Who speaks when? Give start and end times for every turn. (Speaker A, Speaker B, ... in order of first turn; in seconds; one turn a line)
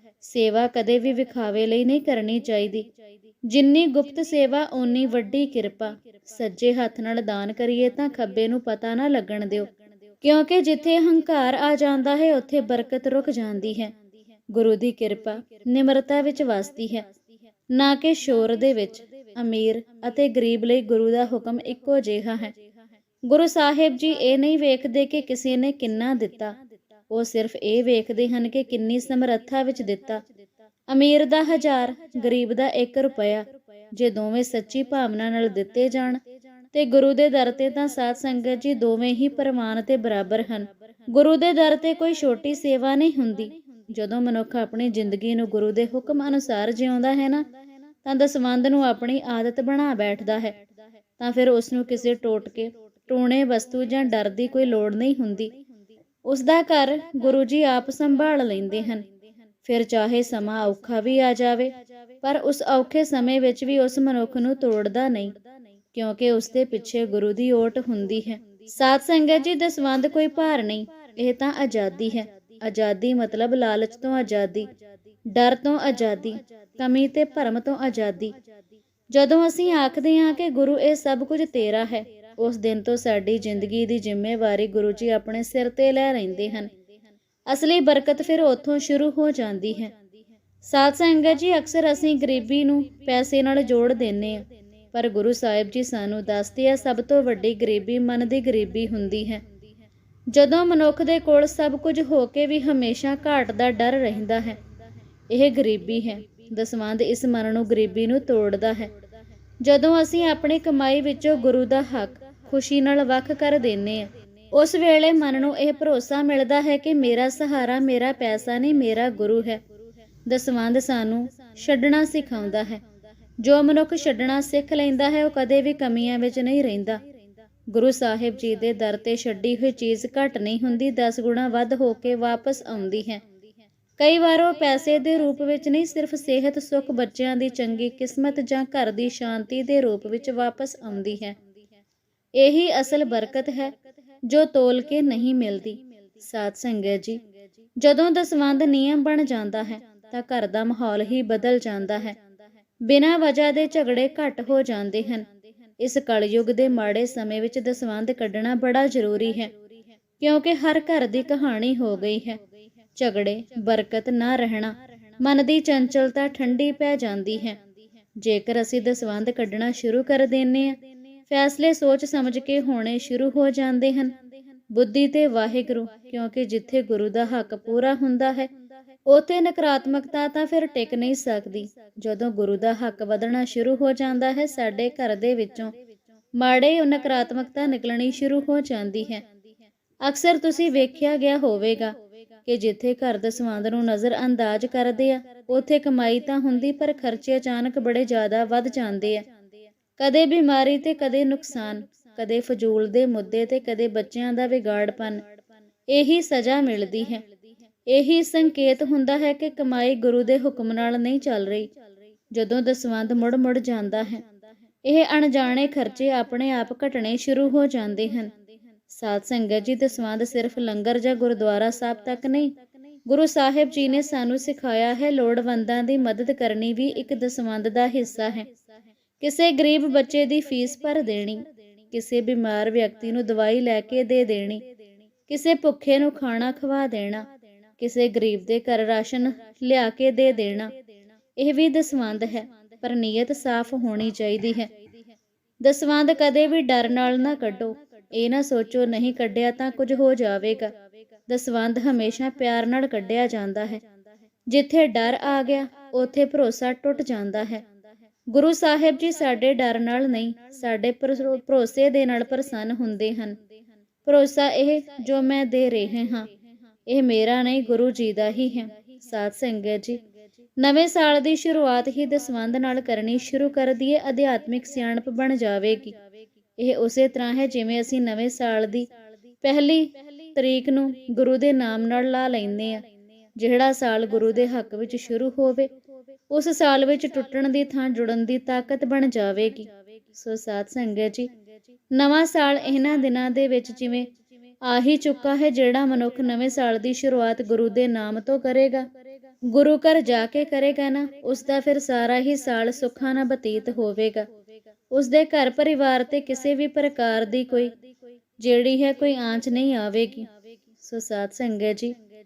Speaker A: 0.2-2.9
Speaker A: 3.5-9.7
Speaker A: 10.2-13.9
Speaker A: 14.5-17.1
Speaker A: 17.7-22.5
Speaker A: 23.3-26.5
Speaker A: 27.1-30.2
Speaker A: 30.9-36.2
Speaker A: 36.7-47.5
Speaker A: 48.0-50.6
Speaker A: 51.2-55.5
Speaker A: 56.2-59.0
Speaker A: 59.6-65.3
Speaker A: 65.9-74.7
Speaker A: 75.3-78.3
Speaker A: 79.1-86.7
Speaker A: 87.5-89.9
Speaker A: 90.6-99.4
Speaker A: 100.3-104.6
Speaker A: 105.3-108.9
Speaker A: 109.6-119.6
Speaker A: 120.2-122.8
Speaker A: 123.4-127.0
Speaker A: 127.7-133.2
Speaker A: 134.0-141.4
Speaker A: 142.4-143.7
Speaker A: 144.2-147.2
Speaker A: 147.8-152.2
Speaker A: 152.8-155.2
Speaker A: 155.8-159.5
Speaker A: 160.2-162.4
Speaker A: 162.9-167.6
Speaker A: 168.2-170.8
Speaker A: 171.3-174.2
Speaker A: 174.7-178.5
Speaker A: 179.1-185.7
Speaker A: 186.4-189.2
Speaker A: 190.0-199.2
Speaker A: 200.0-205.2
Speaker A: 205.9-207.2
Speaker A: 207.9-211.7
Speaker A: 212.3-214.2
Speaker A: 214.8-218.3
Speaker A: 218.9-222.5
Speaker A: 223.1-228.5
Speaker A: 229.2-234.7
Speaker A: 235.3-237.3
Speaker A: 237.8-240.7
Speaker A: 241.3-244.7
Speaker A: 245.6-250.7
Speaker A: 251.3-253.8
Speaker A: 254.5-257.6
Speaker A: 258.3-263.4
Speaker A: 264.1-266.3
Speaker A: 266.9-270.0
Speaker A: 270.6-275.9
Speaker A: 276.6-278.9
Speaker A: 279.4-282.8
Speaker A: 283.4-285.7
Speaker A: 286.3-291.3
Speaker A: 291.9-294.1
Speaker A: 294.6-298.9
Speaker A: 299.5-304.2
Speaker A: 304.9-307.8
Speaker A: 308.4-311.9